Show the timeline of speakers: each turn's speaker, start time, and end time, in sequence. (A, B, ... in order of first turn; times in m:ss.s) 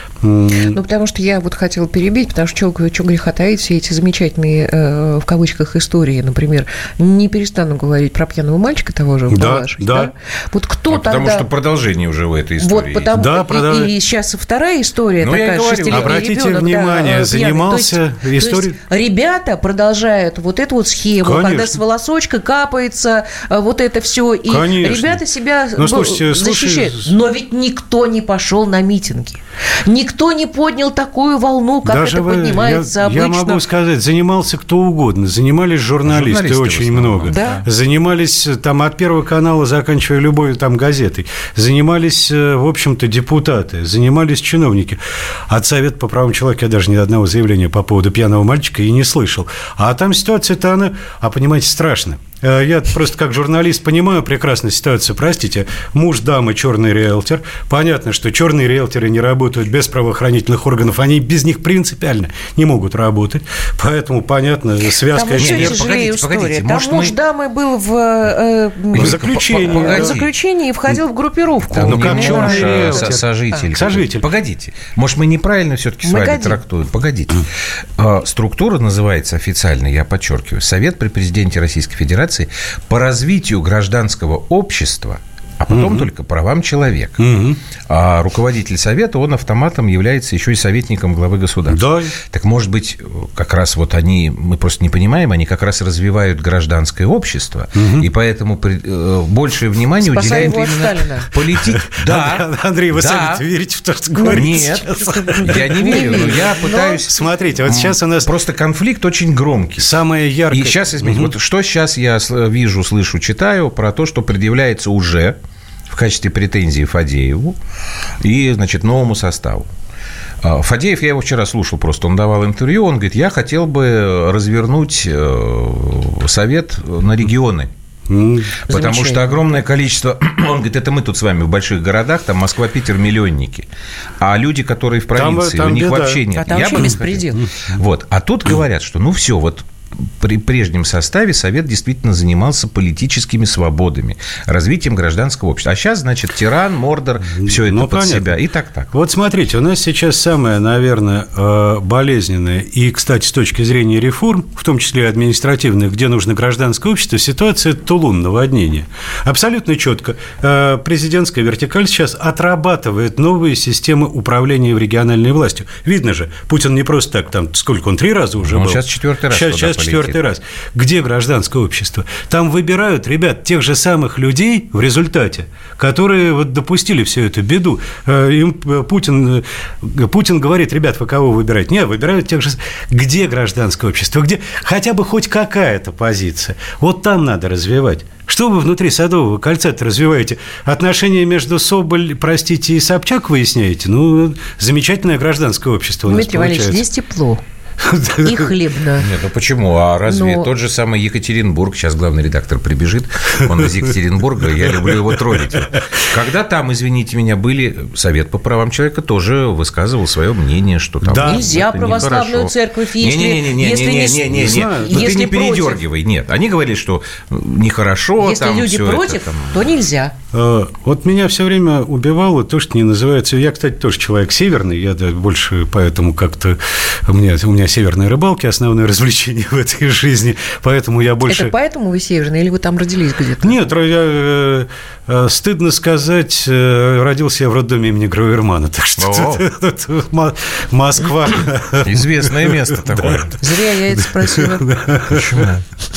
0:00.2-0:00.8 A
0:00.6-0:11.5 B
0:09.3-0:10.1 A
0:10.9-0:13.1 C
0:12.6-0:33.6 B
0:13.1-0:13.9 A
0:15.2-0:16.2 C
0:15.9-0:18.8 A
0:21.2-0:21.8 A
0:24.5-0:25.2 A
0:25.8-0:27.2 A
0:31.8-1:05.9 A
0:36.0-0:37.7 C
0:37.3-0:37.6 B
1:05.1-1:13.6 B
1:05.4-1:07.2 C
1:08.9-1:10.2 A
1:08.9-1:10.3 C
1:11.7-1:27.2 C
1:11.7-1:14.3 A
1:16.0-1:16.6 B
1:25.7-1:26.1 A
1:27.2-1:27.6 A
1:27.9-1:43.4 C
1:31.7-1:32.1 A
1:37.8-1:38.1 A
1:40.0-1:41.3 B
1:40.2-1:40.6 A
1:41.6-1:48.3 A
1:44.2-1:47.0 B
1:44.3-1:49.9 C
1:49.8-1:51.3 A
1:50.5-1:55.4 C
1:55.9-1:57.6 C
1:58.2-1:59.7 C
2:00.4-2:07.7 C
2:08.1-2:08.6 A
2:08.7-2:13.7 C
2:08.7-2:09.6 B
2:14.2-2:28.9 C
2:15.1-2:17.4 A
2:16.3-2:17.4 B
2:27.3-2:28.4 A
2:28.9-3:16.9 A
2:48.4-2:50.2 C
3:16.1-3:17.4 B
3:17.8-3:18.5 A
3:18.2-3:19.1 B
3:19.0-3:39.7 C
3:20.1-3:20.5 B
3:31.0-3:31.5 A
3:31.2-3:35.8 B
3:34.3-3:35.3 A
3:38.2-3:40.1 B
3:40.3-3:51.5 A
3:51.3-3:53.6 B
3:53.4-4:03.3 A
3:59.0-3:59.4 C
4:01.8-4:03.4 C
4:03.4-4:04.7 B
4:04.3-4:05.5 A
4:05.1-4:05.6 C